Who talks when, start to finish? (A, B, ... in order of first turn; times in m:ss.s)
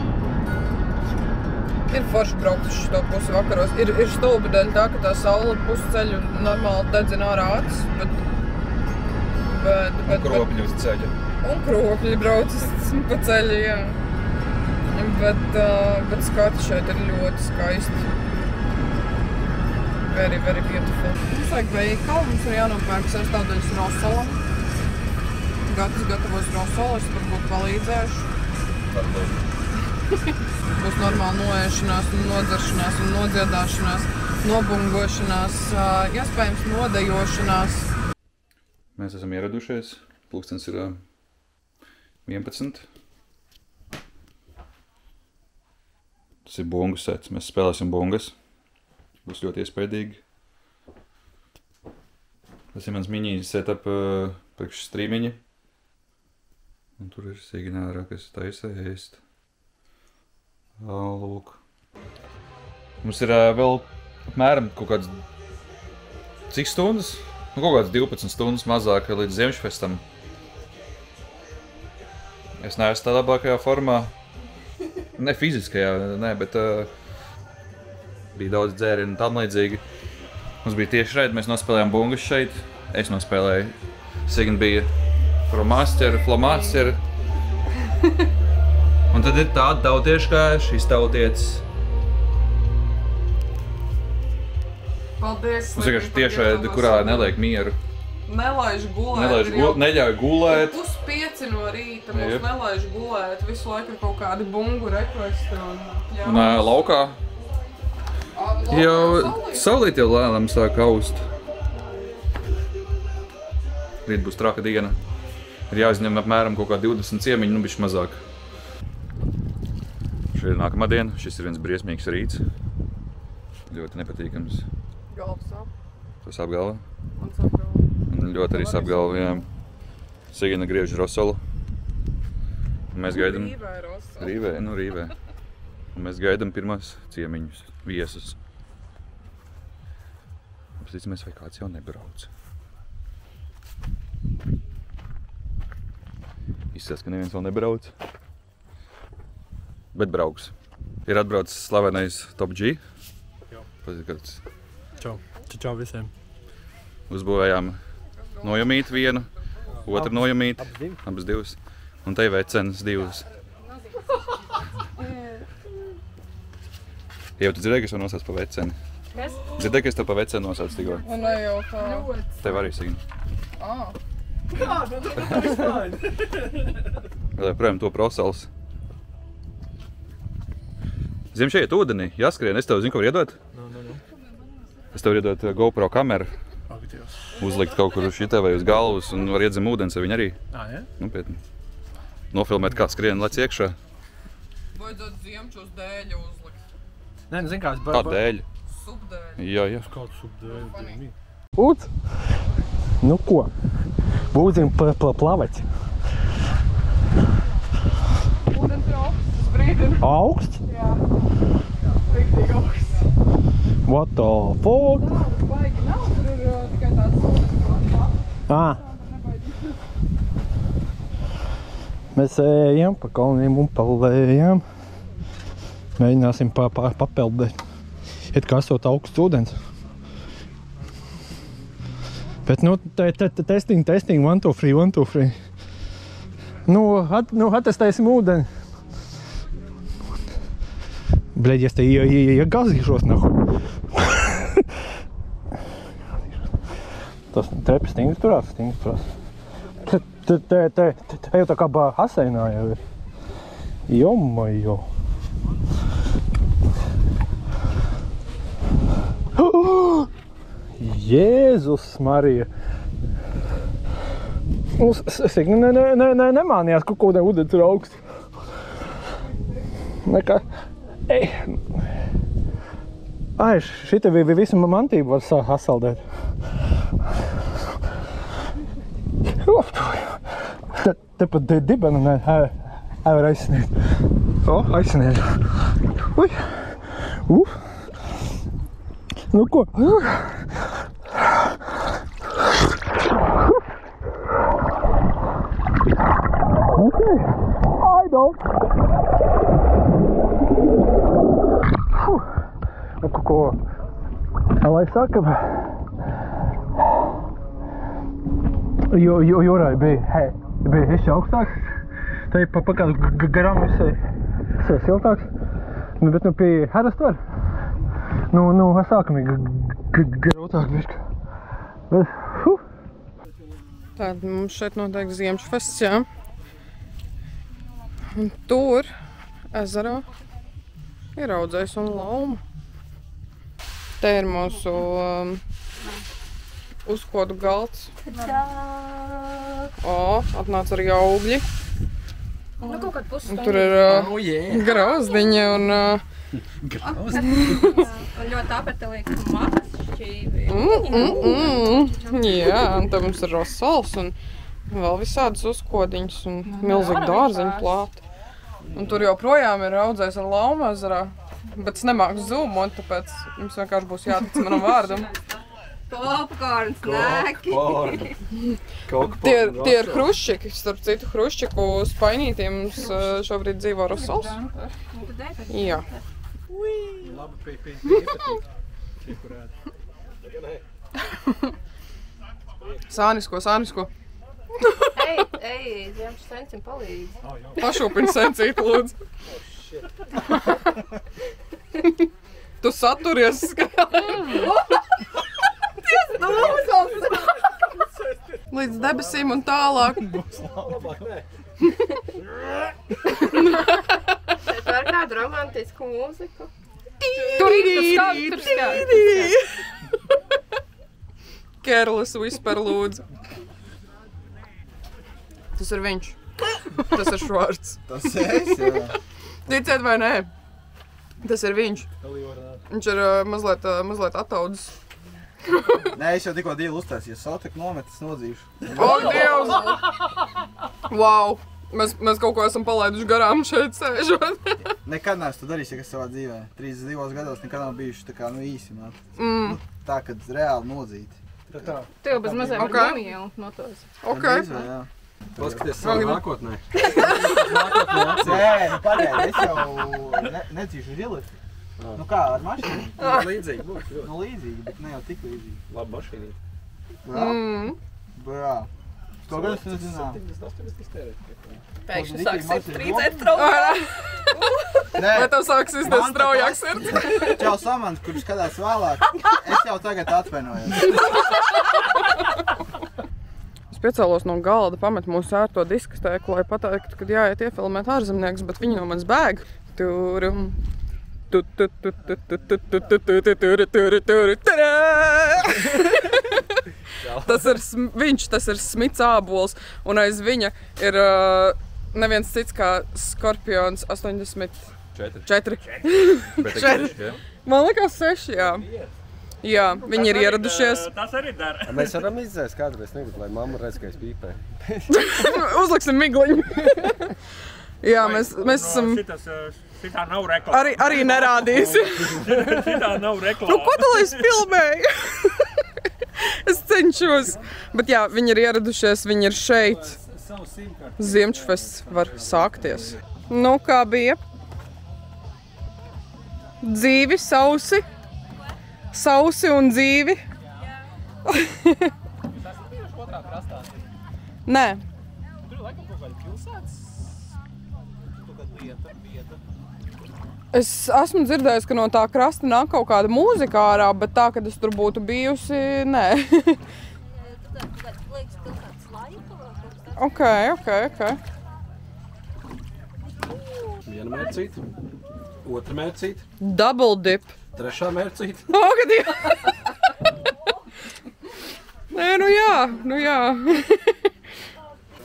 0:01.9-0:08.2 A
0:09.4-0:10.6 A
0:10.1-0:11.1 B
0:11.4-0:14.0 A
0:14.9-0:18.1 A
0:20.1-0:24.4 A
0:25.7-0:28.3 A
0:28.9-0:29.4 B
0:30.7-0:37.9 A
0:39.0-0:41.0 B
0:42.2-0:42.8 B
0:46.4-0:48.3 B
0:49.2-0:50.2 B
0:52.7-0:55.4 B
0:57.0-0:59.2 B
1:00.8-1:01.6 B
1:03.0-1:05.2 B
1:06.5-1:10.0 B
1:12.6-1:14.1 B
1:15.2-1:16.9 B
1:18.3-1:19.8 B
1:20.6-1:23.7 B
1:24.3-1:24.9 B
1:25.5-1:27.0 B
1:26.4-1:26.7 A
1:29.1-1:31.6 B
1:35.2-1:37.4 A
1:35.7-1:37.8 B
1:38.3-1:46.8 A
1:39.1-1:40.8 B
1:42.1-1:42.5 B
1:46.2-1:47.2 B
1:48.4-1:49.7 A
1:48.7-1:51.2 B
1:54.0-1:55.0 B
1:55.7-1:58.2 B
2:00.3-2:02.4 B
2:03.7-2:04.7 B
2:05.1-2:05.7 A
2:06.2-2:06.8 B
2:07.2-2:07.9 A
2:08.1-2:09.5 B
2:08.5-2:09.4 A
2:10.3-2:11.4 B
2:12.9-2:13.6 B
2:13.1-2:14.4 A
2:14.2-2:15.1 B
2:16.0-2:18.4 B
2:20.8-2:22.3 B
2:26.7-2:27.9 B
2:29.9-2:30.5 B
2:31.1-2:32.8 B
2:33.8-2:34.4 B
2:35.0-2:36.1 C
2:37.1-2:37.8 B
2:38.2-2:38.7 A
2:38.4-2:39.3 B
2:39.8-2:43.3 B
2:39.9-2:41.0 C
2:47.4-2:48.8 B
2:49.1-2:49.7 D
2:49.6-2:51.0 B
2:51.0-2:52.3 D
2:51.0-2:52.1 A
2:52.4-2:53.0 B
2:53.6-2:53.9 A
2:54.6-2:56.0 E
2:57.4-2:58.5 B
3:01.3-3:03.4 B
3:03.5-3:04.0 E
3:04.9-3:06.3 B
3:06.7-3:07.1 E
3:07.4-3:10.4 B
3:10.6-3:10.8 E
3:11.0-3:11.4 B
3:12.3-3:13.8 B
3:14.8-3:16.6 A
3:17.3-3:18.2 C
3:17.9-3:18.5 B
3:18.7-3:19.5 A
3:19.4-3:19.9 B
3:19.9-3:21.1 E
3:20.5-3:21.0 A
3:21.6-3:21.9 C
3:23.0-3:23.5 C
3:24.3-3:25.7 C
3:28.5-3:30.0 A
3:30.0-3:30.6 C
3:30.7-3:31.0 A
3:32.1-3:33.1 A
3:33.8-3:35.2 C
3:34.9-3:38.2 A
3:38.5-3:38.8 C
3:38.9-3:39.6 A
3:42.1-3:44.6 C
3:46.0-3:47.6 C
3:48.3-3:49.6 C
3:52.4-3:55.4 C
3:56.7-3:58.5 C
4:01.3-4:04.6 C
4:07.3-4:09.1 C
4:09.8-4:12.8 C
4:13.9-4:14.9 C
4:19.4-4:20.1 C
4:20.8-4:22.5 C
4:24.8-4:28.0 C
4:30.0-4:30.4 C
4:31.1-4:31.8 C
4:33.4-4:36.0 C
4:39.4-4:43.7 C
4:44.4-4:46.6 C
4:47.2-4:47.6 C
4:49.3-4:50.4 C
4:56.8-4:58.4 C
5:03.0-5:03.6 C
5:04.6-5:05.7 C
5:08.9-5:11.7 C
5:12.3-5:14.0 C
5:14.6-5:15.3 C
5:16.0-5:17.2 C
5:18.3-5:21.0 C
5:21.9-5:22.6 C
5:24.0-5:26.1 A
5:28.1-5:28.9 A
5:29.5-5:30.0 A
5:31.2-5:32.4 A
5:34.0-5:35.4 A
5:36.9-5:37.9 A
5:38.1-5:39.3 D
5:39.8-5:41.4 A
5:42.6-5:45.4 D
5:43.3-5:46.0 A
5:44.0-5:44.6 E
5:46.9-5:52.7 D
5:46.9-5:47.6 E
5:47.2-5:47.8 A
5:50.5-5:54.2 A
5:54.7-5:58.0 A
5:56.5-5:57.8 D
5:58.7-6:05.1 A
6:05.9-6:08.2 D
6:06.8-6:08.0 F
6:08.9-6:10.0 F
6:09.2-6:14.4 A
6:13.9-6:16.0 D
6:15.5-6:15.9 A
6:17.0-6:18.4 E
6:19.0-6:19.5 E
6:22.9-6:23.9 A
6:25.0-6:27.2 D
6:27.2-6:27.6 E
6:27.6-6:29.0 A
6:29.4-6:29.8 E
6:32.6-6:34.5 A
6:36.1-6:37.1 D
6:36.2-6:36.5 A
6:36.3-6:36.9 E
6:38.0-6:39.1 E
6:38.5-6:40.2 A
6:40.3-6:41.3 E
6:43.2-6:43.8 A
6:44.5-6:46.5 D
6:47.0-6:49.6 A
6:47.3-6:49.4 D
6:51.6-6:53.0 A
6:55.6-6:56.2 A
6:56.8-6:57.8 A
6:57.9-6:58.9 G
6:59.5-7:00.3 A
7:01.2-7:01.9 A
7:02.0-7:02.6 E
7:02.7-7:04.7 A
7:05.9-7:09.6 G
7:08.8-7:09.9 A
7:10.9-7:14.6 A
7:14.8-7:21.7 G
7:19.2-7:19.6 A
7:21.5-7:22.6 E
7:22.0-7:23.9 D
7:22.4-7:23.1 A
7:24.0-7:24.7 A
7:24.1-7:24.9 G
7:25.4-7:26.6 F
7:25.4-7:26.2 E
7:25.8-7:26.3 A
7:26.8-7:27.3 A
7:27.0-7:28.7 E
7:28.2-7:31.3 G
7:32.0-7:33.0 G
7:33.0-7:34.2 E
7:34.0-7:35.6 G
7:35.7-7:36.4 E
7:37.0-7:37.4 G
7:37.1-7:37.8 A
7:38.2-7:38.7 G
7:39.3-7:40.2 G
7:39.3-7:41.6 E
7:41.9-7:44.5 D
7:41.9-7:43.3 G
7:43.3-7:43.9 A
7:44.9-7:51.0 G
7:45.0-7:47.4 A
7:53.7-8:00.6 A
8:01.3-8:06.5 A
8:07.2-8:14.7 A
8:15.0-8:15.3 B
8:15.2-8:18.7 A
8:15.7-8:16.2 H
8:16.4-8:17.2 B
8:18.5-8:18.9 E
8:19.4-8:20.9 A
8:19.5-8:22.1 H
8:21.7-8:25.2 F
8:24.9-8:27.1 A
8:27.8-8:29.0 A
8:27.8-8:34.3 H
8:30.5-8:35.5 A
8:36.2-8:40.0 A
8:39.9-8:42.9 E
8:41.0-8:44.2 A
8:46.6-8:47.8 A
8:48.9-8:50.2 A
8:51.3-8:51.9 A
8:52.6-8:53.7 E
8:54.5-8:54.8 A
8:55.5-8:56.8 E
8:58.2-8:59.4 E
9:00.5-9:06.6 A
9:10.0-9:11.2 A
9:13.9-9:14.6 E
9:15.4-9:16.2 E
9:16.4-9:17.3 A
9:17.6-9:18.5 E
9:18.5-9:19.7 A
9:21.9-9:23.9 A